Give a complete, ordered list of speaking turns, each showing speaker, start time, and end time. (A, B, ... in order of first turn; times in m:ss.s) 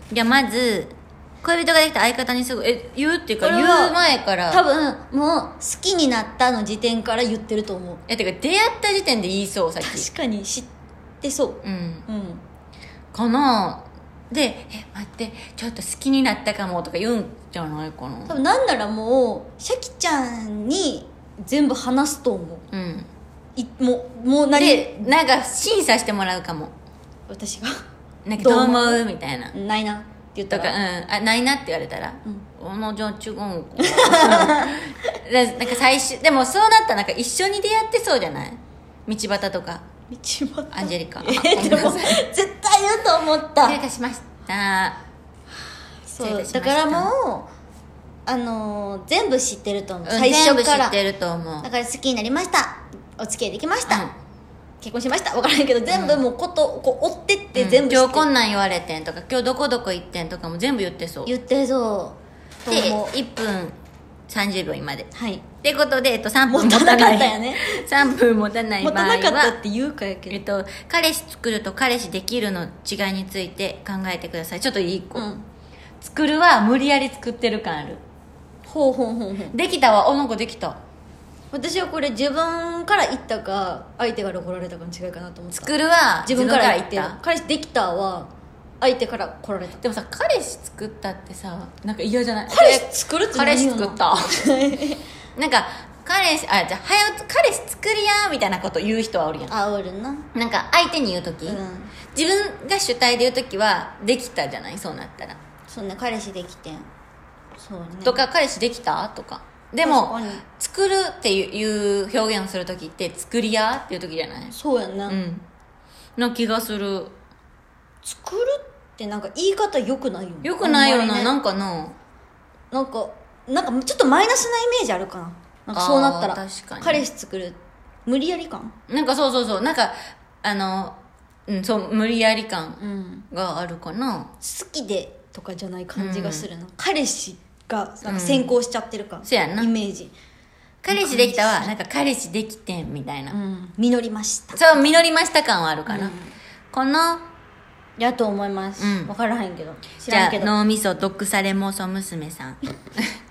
0:00.1-0:04.6 A
0:03.4-0:04.0 B
0:04.5-0:08.0 B
0:08.1-0:10.1 A
0:09.8-0:10.7 B
0:11.2-0:12.4 B
0:11.6-0:12.1 A
0:13.1-0:18.4 A
0:18.2-0:22.6 B
0:22.7-0:23.1 A
0:23.6-0:25.1 B
0:24.5-0:26.7 A
0:27.3-0:27.8 B
0:28.2-0:29.5 A
0:28.4-0:30.8 B
0:30.5-0:39.8 A
0:33.8-0:34.8 B
0:40.1-0:43.8 B
0:40.7-0:42.2 A
0:43.6-0:45.0 A
0:46.1-0:47.5 B
0:46.2-0:47.1 A
0:48.2-0:51.0 B
0:50.0-0:51.7 A
0:51.6-0:54.0 B
0:53.9-0:54.1 A
0:54.8-0:58.3 B
0:55.9-0:56.2 A
0:57.5-1:01.3 A
1:01.2-1:03.1 B
1:02.7-1:03.8 A
1:04.3-1:05.1 A
1:05.1-1:05.4 B
1:05.6-1:09.6 A
1:06.5-1:07.6 B
1:08.8-1:10.4 B
1:10.3-1:15.2 A
1:15.1-1:15.4 B
1:16.0-1:18.0 A
1:18.6-1:19.6 B
1:19.5-1:20.8 A
1:21.5-1:25.7 B
1:25.5-1:27.2 A
1:26.2-1:29.8 B
1:29.8-1:34.4 A
1:32.5-1:35.0 B
1:35.3-1:39.5 A
1:39.5-1:40.3 B
1:40.3-1:41.6 A
1:41.4-1:41.9 B
1:42.1-1:45.4 A
1:45.7-1:46.9 B
1:47.6-1:48.2 B
1:48.0-1:54.5 A
1:49.8-1:50.4 B
1:54.5-1:55.2 B
1:55.1-1:55.4 A
1:56.2-1:57.2 A
1:58.0-2:01.3 B
2:00.4-2:02.0 A
2:02.7-2:08.7 B
2:05.7-2:07.0 A
2:08.9-2:14.3 A
2:12.8-2:13.3 B
2:14.4-2:20.1 B
2:15.9-2:16.5 A
2:18.0-2:18.6 A
2:19.2-2:19.7 A
2:20.8-2:23.4 A
2:20.9-2:21.7 B
2:23.3-2:24.9 B
2:24.5-2:26.1 A
2:25.9-2:26.3 B
2:26.7-2:27.3 A
2:28.0-2:30.5 B
2:28.8-2:29.1 A
2:30.1-2:33.1 A